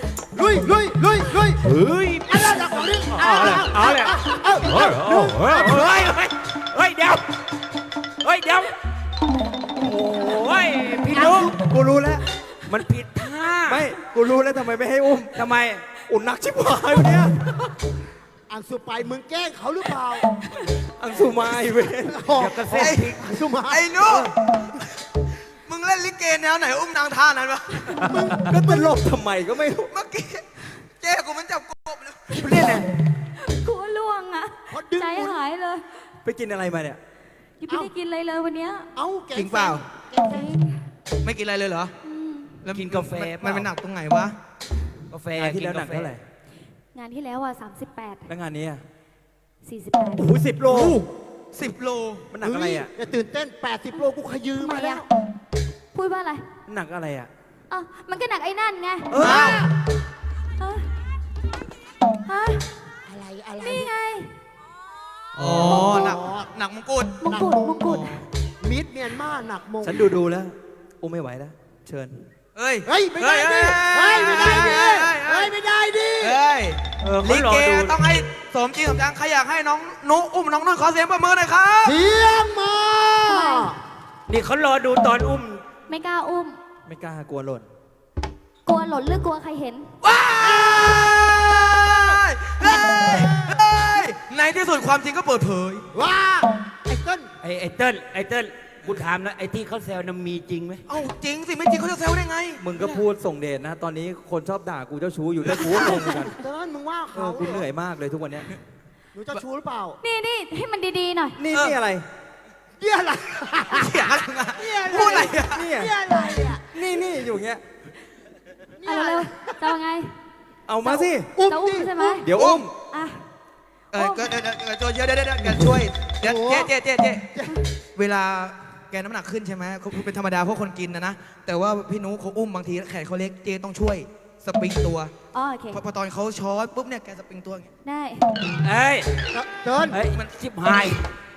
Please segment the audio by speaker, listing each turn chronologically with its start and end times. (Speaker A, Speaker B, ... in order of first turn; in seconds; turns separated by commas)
Speaker A: 0.3-1.6, Speaker B: 1.6-7.2, Speaker A: 2.3-6.1, Speaker B: 8.2-8.7, Speaker B: 9.8-11.5, Speaker A: 11.1-12.2, Speaker B: 12.7-13.8, Speaker C: 13.7-15.5, Speaker B: 15.3-15.9, Speaker C: 16.0-17.3, Speaker A: 18.5-20.3, Speaker C: 20.8-22.4, Speaker A: 22.1-24.3, Speaker B: 22.4-23.2, Speaker D: 22.7-23.1, Speaker D: 23.7-24.8, Speaker D: 25.7-28.0, Speaker A: 27.9-28.9, Speaker C: 28.0-29.9, Speaker D: 29.9-30.5, Speaker D: 31.0-32.5, Speaker C: 32.3-32.9, Speaker E: 33.3-35.9, Speaker A: 34.7-35.4, Speaker C: 36.2-37.0, Speaker E: 37.6-38.9, Speaker A: 39.0-40.5, Speaker D: 39.3-39.9, Speaker E: 40.3-40.7, Speaker D: 41.2-41.9, Speaker E: 42.0-42.6, Speaker D: 42.6-44.4, Speaker B: 42.7-43.7, Speaker B: 45.1-46.1, Speaker C: 45.4-46.2, Speaker E: 46.9-48.3, Speaker C: 48.3-48.8, Speaker E: 49.6-50.3, Speaker C: 50.2-51.0, Speaker A: 50.6-50.9, Speaker D: 50.7-52.3, Speaker C: 52.3-52.9, Speaker A: 52.4-55.1, Speaker E: 54.6-55.0, Speaker E: 55.9-56.5, Speaker C: 56.7-57.3, Speaker E: 57.7-59.4, Speaker C: 59.1-59.6, Speaker A: 59.1-59.7, Speaker D: 59.2-59.6, Speaker E: 60.6-60.9, Speaker E: 62.3-62.6, Speaker A: 63.1-63.9, Speaker E: 63.6-64.3, Speaker D: 65.3-67.3, Speaker A: 65.4-66.5, Speaker E: 67.2-68.2, Speaker A: 67.3-67.9, Speaker D: 67.9-68.2, Speaker A: 68.6-70.0, Speaker C: 69.8-72.3, Speaker D: 72.5-75.5, Speaker A: 72.9-76.4, Speaker D: 76.2-82.0, Speaker B: 77.0-78.0, Speaker A: 81.8-83.8, Speaker E: 83.3-83.7, Speaker B: 84.3-85.6, Speaker E: 85.9-86.6, Speaker C: 86.9-87.7, Speaker E: 88.7-89.9, Speaker D: 90.0-95.9, Speaker A: 90.4-92.2, Speaker A: 93.3-93.6, Speaker A: 95.9-97.3, Speaker B: 97.4-100.8, Speaker D: 100.9-103.0, Speaker C: 102.6-106.4, Speaker A: 105.7-107.7, Speaker C: 107.1-108.5, Speaker A: 109.1-110.0, Speaker E: 110.0-111.4, Speaker C: 111.4-112.0, Speaker A: 112.8-116.7, Speaker D: 113.7-115.7, Speaker C: 115.5-115.9, Speaker C: 116.5-117.6, Speaker A: 118.8-119.8, Speaker E: 118.8-120.1, Speaker C: 120.7-121.3, Speaker E: 120.8-122.3, Speaker A: 121.4-122.2, Speaker C: 122.2-122.7, Speaker D: 122.3-122.7, Speaker E: 122.9-123.2, Speaker D: 123.9-127.3, Speaker E: 123.9-124.3, Speaker A: 126.1-126.7, Speaker D: 128.0-135.1, Speaker E: 135.3-135.8, Speaker D: 135.7-137.7, Speaker E: 137.8-138.3, Speaker B: 138.6-139.1, Speaker A: 139.3-140.0, Speaker B: 139.9-141.1